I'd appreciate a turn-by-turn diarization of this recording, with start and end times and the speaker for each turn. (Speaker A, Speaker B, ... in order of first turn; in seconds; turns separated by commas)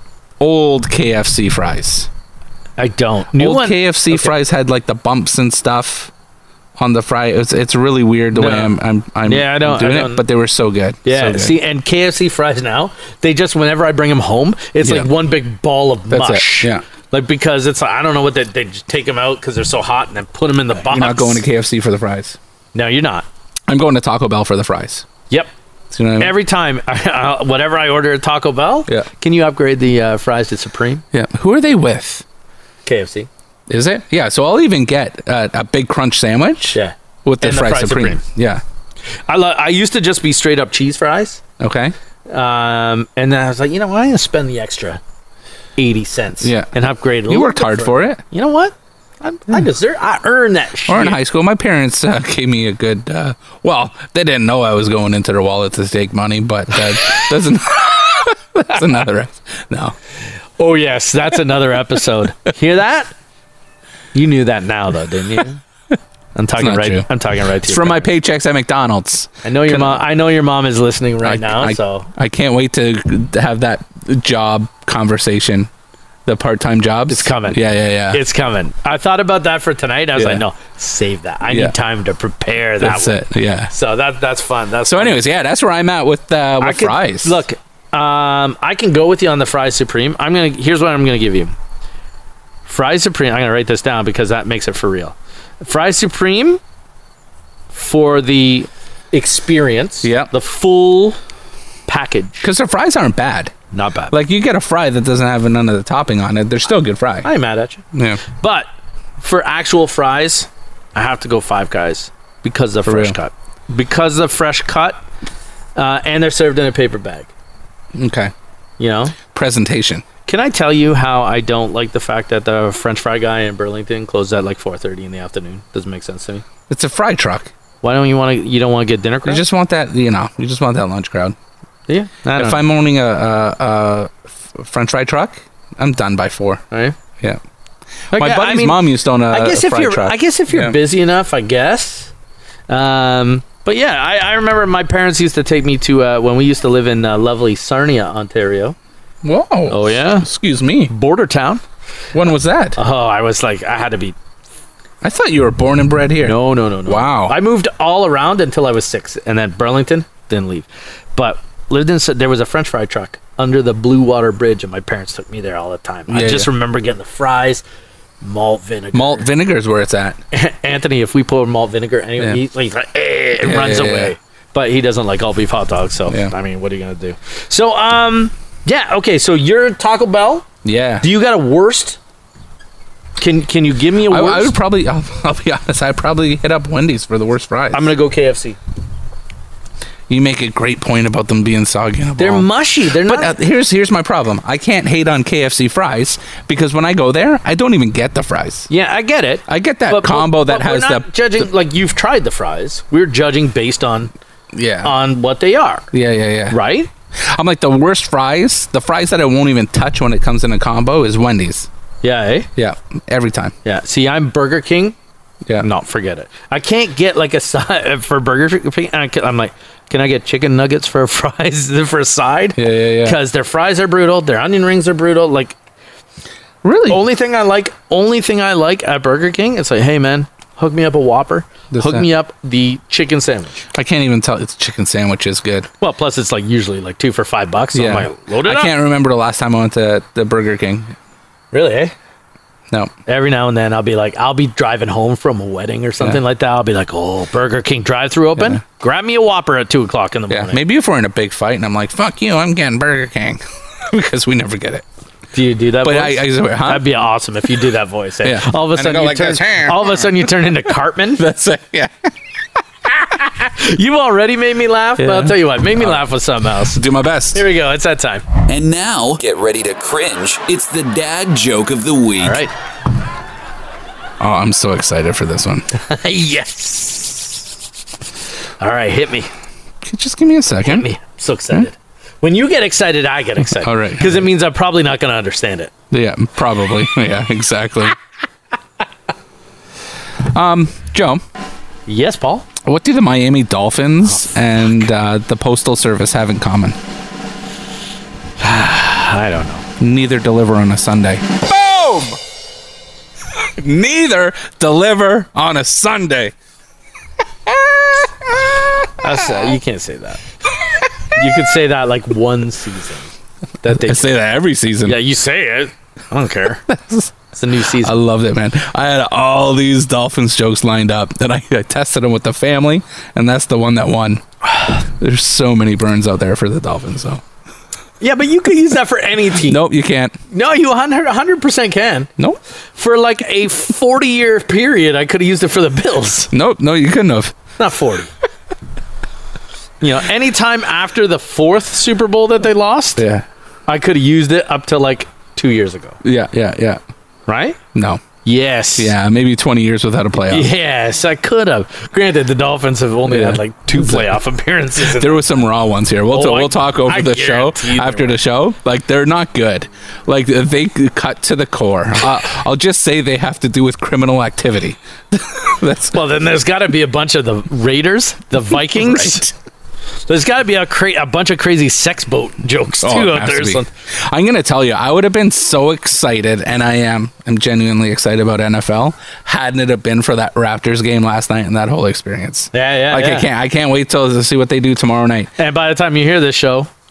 Speaker A: 0.4-2.1, Speaker B: 2.8-4.3, Speaker A: 3.4-6.1, Speaker A: 6.8-11.6, Speaker B: 8.3-10.2, Speaker B: 11.1-21.4, Speaker A: 14.8-15.1, Speaker A: 16.1-16.8, Speaker A: 20.9-22.4, Speaker B: 22.7-23.3, Speaker A: 23.7-25.1, Speaker A: 25.9-26.4, Speaker B: 26.2-31.0, Speaker A: 31.1-32.2, Speaker B: 32.9-33.3, Speaker A: 33.7-38.6, Speaker B: 36.7-38.2, Speaker B: 39.3-41.4, Speaker A: 41.6-41.9, Speaker B: 42.3-45.0, Speaker B: 45.8-51.2, Speaker A: 46.4-46.7, Speaker A: 47.3-48.2, Speaker A: 50.9-60.0, Speaker B: 60.6-63.1, Speaker B: 64.1-65.6, Speaker B: 66.3-68.1, Speaker A: 66.6-67.1, Speaker A: 67.6-70.0, Speaker B: 69.4-72.1, Speaker A: 71.2-75.7, Speaker A: 76.3-78.2, Speaker B: 77.1-77.6, Speaker B: 78.1-85.2, Speaker A: 80.2-80.4, Speaker A: 81.5-81.8, Speaker A: 82.8-83.7, Speaker A: 84.9-87.4, Speaker B: 86.6-91.5, Speaker B: 92.7-96.6, Speaker B: 97.7-101.2, Speaker A: 100.0-100.3, Speaker B: 101.9-102.5, Speaker A: 102.4-103.5, Speaker B: 103.7-104.2, Speaker A: 104.1-107.3, Speaker B: 107.2-108.7, Speaker A: 107.9-108.2, Speaker B: 109.2-115.0, Speaker A: 112.8-113.2, Speaker B: 115.8-117.3, Speaker A: 117.9-118.3, Speaker B: 118.8-119.2, Speaker A: 119.3-120.1, Speaker B: 120.3-126.5, Speaker A: 126.7-127.5, Speaker B: 127.8-129.4, Speaker A: 129.3-131.4, Speaker B: 131.9-132.6, Speaker A: 132.4-136.6, Speaker B: 136.7-137.0, Speaker A: 138.1-140.8, Speaker B: 138.1-142.1, Speaker B: 142.7-148.8, Speaker A: 149.2-150.9, Speaker B: 149.7-150.3, Speaker B: 150.9-151.6, Speaker A: 152.1-152.8, Speaker B: 152.8-154.2, Speaker A: 155.0-157.3, Speaker B: 156.2-167.6, Speaker A: 166.1-166.5, Speaker B: 168.2-169.3, Speaker A: 168.9-170.2, Speaker B: 170.3-180.5, Speaker A: 173.4-174.1, Speaker A: 176.1-176.3, Speaker A: 180.6-181.1, Speaker B: 181.0-182.0, Speaker B: 183.2-184.5, Speaker A: 184.1-187.9, Speaker B: 187.7-188.6, Speaker A: 190.1-198.7, Speaker B: 192.2-193.4, Speaker B: 198.7-204.1, Speaker A: 199.5-201.1, Speaker A: 204.5-204.9, Speaker B: 204.8-205.9, Speaker A: 205.9-206.6, Speaker B: 206.5-206.9, Speaker A: 207.2-211.7, Speaker B: 212.0-212.5, Speaker A: 212.6-213.5, Speaker B: 213.7-215.0, Speaker B: 215.6-225.6, Speaker A: 222.6-223.2, Speaker A: 226.6-227.0, Speaker B: 226.9-233.7, Speaker A: 231.7-232.1, Speaker A: 233.7-235.7, Speaker B: 235.8-238.7, Speaker A: 237.7-240.9, Speaker B: 241.5-241.9, Speaker B: 243.1-250.6, Speaker A: 248.4-248.6, Speaker A: 250.3-254.8, Speaker B: 255.3-261.2, Speaker A: 255.8-256.9, Speaker A: 258.2-260.3, Speaker A: 261.2-262.1, Speaker B: 263.3-268.2, Speaker A: 265.0-266.1, Speaker A: 266.6-267.4, Speaker C: 268.5-272.4, Speaker B: 272.2-272.5, Speaker A: 274.2-275.7, Speaker B: 275.7-277.4, Speaker B: 278.6-279.3, Speaker A: 279.8-280.9, Speaker B: 280.6-285.7, Speaker A: 283.5-284.3, Speaker A: 285.9-288.0, Speaker A: 290.2-291.2, Speaker B: 291.9-292.5, Speaker A: 292.6-296.8, Speaker B: 298.4-299.6, Speaker A: 299.8-302.2, Speaker A: 303.6-306.3, Speaker A: 307.5-308.1, Speaker B: 309.0-310.2, Speaker B: 311.1-313.1, Speaker B: 313.6-314.1, Speaker A: 313.7-315.0, Speaker B: 314.9-316.6, Speaker A: 316.7-317.1, Speaker B: 317.3-317.9, Speaker A: 317.8-324.2, Speaker A: 324.8-327.2, Speaker B: 328.0-329.6, Speaker A: 329.4-330.1, Speaker B: 330.3-332.1, Speaker B: 332.8-336.3, Speaker A: 336.3-337.4, Speaker B: 337.6-338.1, Speaker B: 339.8-343.1, Speaker A: 343.0-343.3, Speaker B: 343.7-346.0, Speaker A: 346.0-346.8, Speaker B: 347.3-347.6, Speaker A: 347.7-348.0, Speaker B: 348.2-348.9, Speaker A: 348.8-350.5, Speaker B: 350.3-355.4, Speaker A: 353.1-354.1, Speaker A: 354.8-366.0, Speaker B: 356.1-358.2, Speaker B: 365.9-369.3, Speaker A: 368.5-369.3, Speaker B: 370.1-373.7, Speaker A: 372.8-385.3, Speaker B: 382.5-383.3, Speaker B: 385.4-386.7